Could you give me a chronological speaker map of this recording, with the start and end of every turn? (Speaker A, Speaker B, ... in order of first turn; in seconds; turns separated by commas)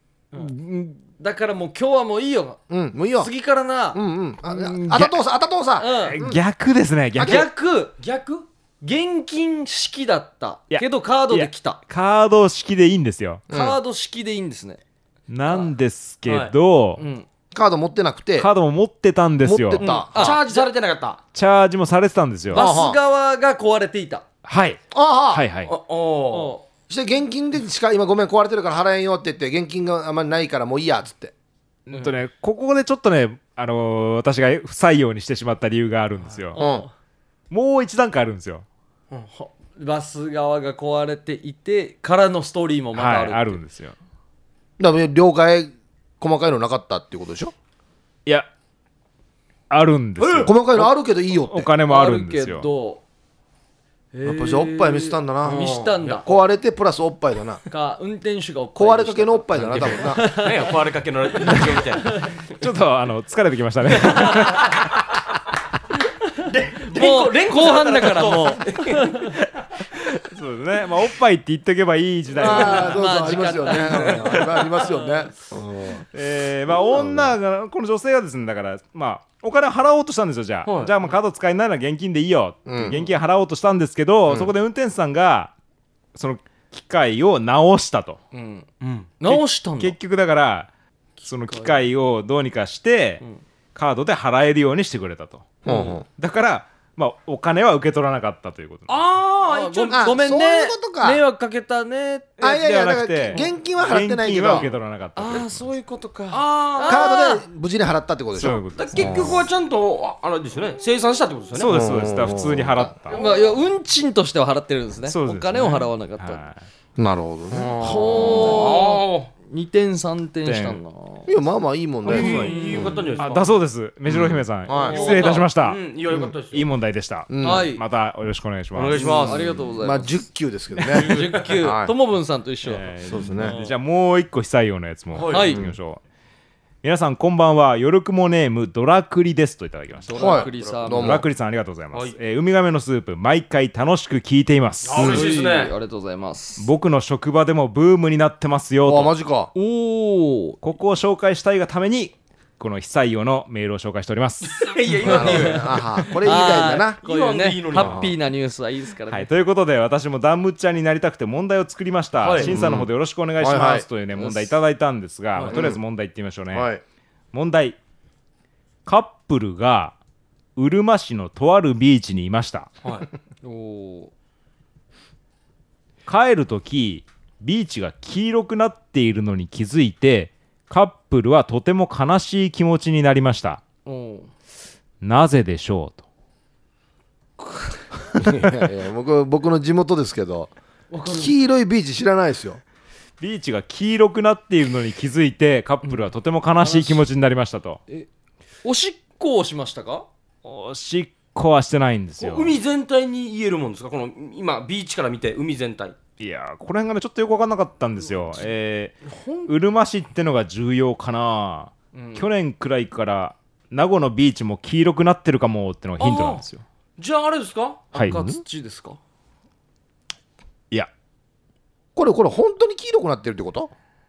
Speaker A: 0.3-2.6, Speaker B: 2.7-3.3, Speaker A: 3.2-4.0, Speaker B: 3.9-6.4, Speaker C: 4.5-5.2, Speaker A: 5.8-6.2, Speaker C: 6.0-7.5, Speaker B: 7.2-7.5, Speaker A: 7.2-8.0, Speaker D: 8.0-8.4, Speaker A: 8.8-11.8, Speaker C: 10.7-13.4, Speaker B: 13.5-13.8, Speaker A: 13.5-14.8, Speaker C: 15.3-17.0, Speaker D: 16.2-16.5, Speaker A: 17.0-17.3, Speaker B: 17.5-18.5, Speaker C: 18.4-19.9, Speaker B: 19.4-20.4, Speaker A: 19.8-20.7, Speaker D: 20.1-21.2, Speaker C: 21.3-22.7, Speaker B: 22.5-23.0, Speaker A: 22.5-24.2, Speaker C: 24.4-25.7, Speaker B: 24.9-25.5, Speaker D: 25.7-26.6, Speaker A: 26.3-26.6, Speaker B: 26.9-31.3, Speaker C: 31.9-36.6, Speaker A: 36.5-36.9, Speaker B: 36.6-36.9, Speaker C: 37.5-38.7, Speaker A: 39.3-43.6, Speaker C: 43.0-44.0, Speaker B: 44.8-47.5, Speaker C: 49.7-52.7, Speaker D: 50.2-50.5, Speaker B: 50.4-51.7, Speaker A: 51.9-53.0, Speaker A: 54.1-56.4, Speaker B: 54.2-57.6, Speaker D: 55.5-56.2, Speaker A: 57.7-60.6, Speaker B: 58.8-60.3, Speaker D: 59.9-62.2, Speaker C: 62.5-64.8, Speaker D: 66.5-69.3, Speaker A: 66.9-69.3, Speaker C: 70.1-73.0, Speaker A: 72.4-75.2, Speaker B: 72.4-76.0, Speaker C: 76.1-85.5, Speaker B: 76.8-77.4, Speaker D: 80.7-81.0, Speaker B: 82.7-83.1, Speaker B: 84.3-84.5, Speaker C: 86.2-88.2, Speaker A: 88.3-88.7, Speaker D: 88.8-89.1, Speaker A: 89.2-90.0, Speaker C: 89.2-90.7, Speaker A: 91.2-91.9, Speaker C: 91.2-93.2, Speaker C: 93.8-99.0, Speaker B: 95.6-96.0, Speaker A: 95.7-96.0, Speaker D: 98.9-100.0, Speaker A: 99.4-102.3, Speaker B: 99.9-101.2, Speaker C: 102.4-105.7, Speaker B: 102.4-104.7, Speaker A: 105.2-107.4, Speaker D: 106.3-107.3, Speaker B: 106.8-109.4, Speaker C: 108.3-109.4, Speaker D: 108.7-111.8, Speaker C: 111.5-113.2, Speaker B: 111.6-112.9, Speaker D: 113.0-113.5, Speaker A: 113.1-116.4, Speaker C: 115.0-116.6, Speaker B: 117.0-118.8, Speaker A: 117.8-121.3, Speaker D: 118.1-119.3, Speaker C: 120.5-120.8, Speaker B: 121.3-123.0, Speaker D: 122.1-123.5, Speaker A: 122.1-123.1, Speaker C: 122.2-122.5, Speaker C: 123.2-125.8, Speaker B: 124.1-125.1, Speaker D: 124.7-126.7, Speaker A: 124.8-125.3, Speaker C: 126.5-129.3, Speaker B: 127.3-127.7, Speaker A: 127.4-127.8, Speaker D: 128.7-129.5, Speaker B: 129.0-131.9, Speaker A: 129.2-130.2, Speaker D: 130.9-131.6, Speaker A: 130.9-133.8, Speaker C: 132.7-136.0, Speaker B: 133.1-133.6, Speaker D: 135.1-135.5, Speaker A: 135.3-135.6, Speaker C: 136.8-140.4, Speaker A: 140.1-141.2, Speaker D: 140.2-140.8, Speaker B: 140.2-141.3, Speaker C: 140.9-145.1, Speaker D: 144.8-145.7, Speaker B: 144.9-145.3, Speaker A: 145.0-146.7, Speaker C: 146.6-149.1, Speaker B: 148.8-149.5, Speaker A: 149.6-150.6, Speaker C: 150.6-154.7, Speaker D: 154.4-156.1, Speaker B: 155.0-157.0, Speaker A: 155.1-159.3, Speaker D: 157.0-158.0, Speaker B: 157.7-158.2, Speaker C: 159.1-166.7, Speaker D: 162.2-162.6, Speaker B: 162.4-163.9, Speaker A: 164.2-164.5, Speaker B: 165.5-165.8, Speaker B: 166.5-166.8, Speaker C: 167.3-167.8, Speaker C: 168.8-170.0, Speaker C: 170.6-172.7, Speaker A: 173.4-174.1, Speaker C: 176.1-183.6, Speaker A: 183.8-184.3, Speaker C: 185.0-186.0, Speaker B: 188.2-190.5, Speaker A: 190.9-191.3, Speaker B: 191.1-192.6, Speaker C: 193.2-197.8, Speaker A: 196.6-197.1, Speaker A: 198.6-200.1, Speaker C: 200.4-202.6, Speaker D: 202.2-206.0, Speaker C: 206.2-216.6, Speaker A: 209.1-209.5, Speaker A: 211.9-212.3, Speaker D: 216.0-216.4, Speaker D: 217.0-217.9, Speaker A: 217.9-219.0, Speaker C: 217.9-218.3, Speaker B: 222.0-223.7